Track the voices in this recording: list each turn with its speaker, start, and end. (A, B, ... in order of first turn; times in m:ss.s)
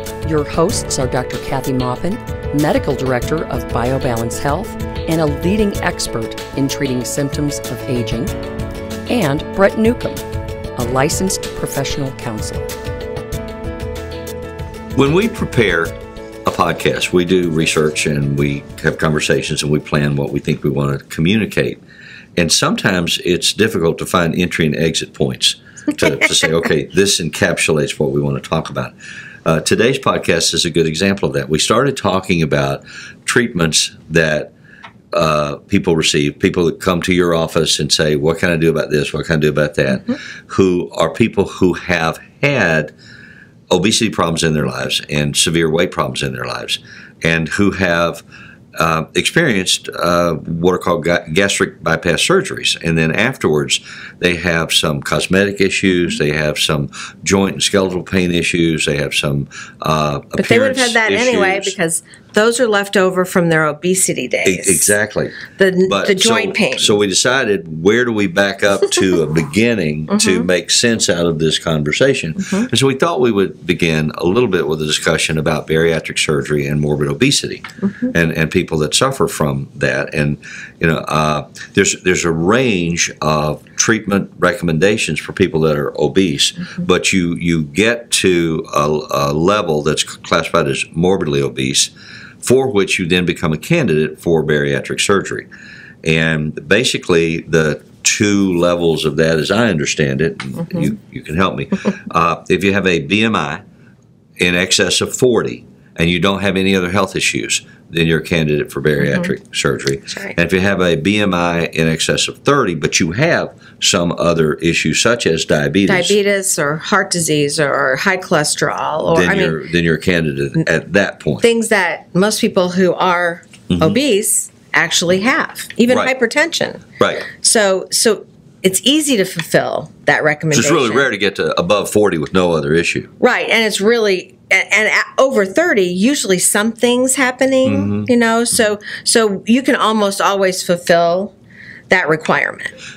0:00.2-0:08.3 A
0:09.1-0:10.2 A
0:10.8-0:12.7 A
0:14.9-0:15.9 B
0:16.4-0:21.8 B
0:22.4-0:34.5 B
0:35.1-0:42.9 B
0:43.7-0:48.2 B
0:48.7-1:01.7 B
1:00.4-1:04.9 C
1:04.4-1:35.5 B
1:05.5-1:07.0 C
1:10.1-1:10.5 C
1:36.0-1:43.6 B
1:44.4-1:56.2 B
1:55.9-1:59.6 C
1:59.1-2:01.4 B
2:01.4-2:11.1 C
2:03.7-2:04.0 B
2:05.9-2:06.1 B
2:07.0-2:07.2 B
2:10.5-2:13.1 B
2:13.2-2:21.3 C
2:17.6-2:18.1 B
2:21.9-2:22.7 C